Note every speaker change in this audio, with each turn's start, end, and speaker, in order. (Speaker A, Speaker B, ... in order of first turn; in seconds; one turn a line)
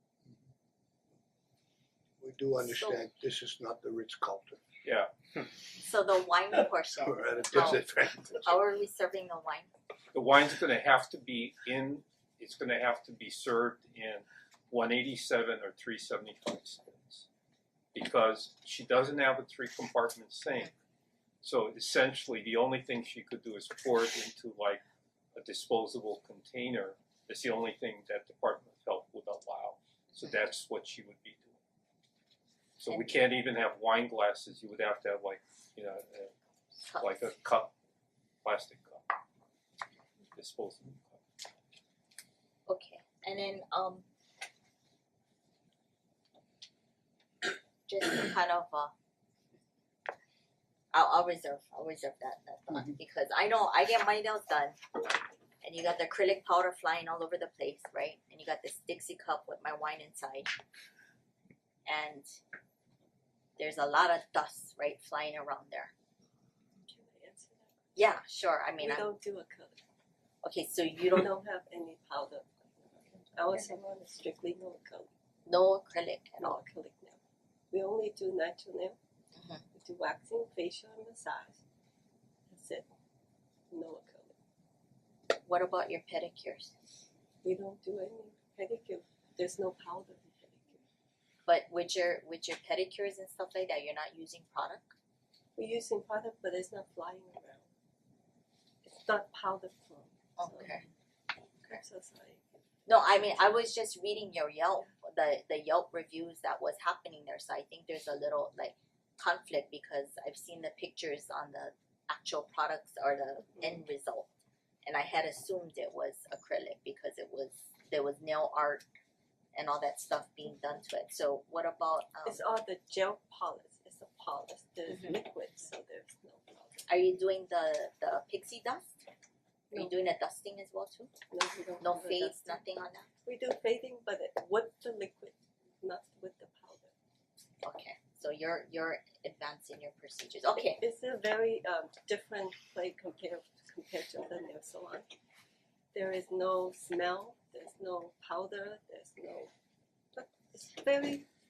Speaker A: 2.2-4.6
Speaker B: 2.7-3.0
Speaker C: 4.8-5.1
Speaker B: 5.8-7.8
Speaker A: 7.0-8.6
Speaker B: 8.4-9.7
Speaker C: 10.1-17.3
Speaker C: 17.9-20.7
Speaker C: 21.4-24.8
Speaker C: 25.4-31.6
Speaker C: 32.8-36.3
Speaker B: 36.9-37.3
Speaker C: 37.0-37.7
Speaker C: 38.4-39.1
Speaker C: 40.4-41.2
Speaker B: 42.7-44.0
Speaker B: 47.9-48.9
Speaker B: 50.9-54.8
Speaker B: 55.6-60.5
Speaker B: 61.9-62.4
Speaker B: 63.6-65.9
Speaker D: 66.8-68.0
Speaker B: 68.0-69.1
Speaker D: 68.8-69.8
Speaker B: 70.4-71.3
Speaker D: 71.2-75.1
Speaker B: 75.5-76.6
Speaker D: 76.4-77.2
Speaker D: 77.7-79.0
Speaker B: 79.3-79.6
Speaker D: 79.7-81.6
Speaker D: 82.5-82.9
Speaker D: 83.7-84.3
Speaker B: 85.3-86.7
Speaker D: 87.4-90.8
Speaker B: 91.5-94.9
Speaker D: 95.6-97.7
Speaker D: 98.8-100.8
Speaker B: 100.4-100.9
Speaker D: 101.6-102.4
Speaker B: 102.9-114.3
Speaker B: 114.8-118.8
Speaker B: 119.5-122.4
Speaker D: 122.2-126.9
Speaker B: 126.9-128.9
Speaker B: 129.7-131.1
Speaker D: 131.3-132.6
Speaker B: 131.8-133.1
Speaker D: 133.2-136.9
Speaker B: 137.6-140.8
Speaker D: 140.6-145.1
Speaker D: 145.9-149.5
Speaker D: 150.2-151.3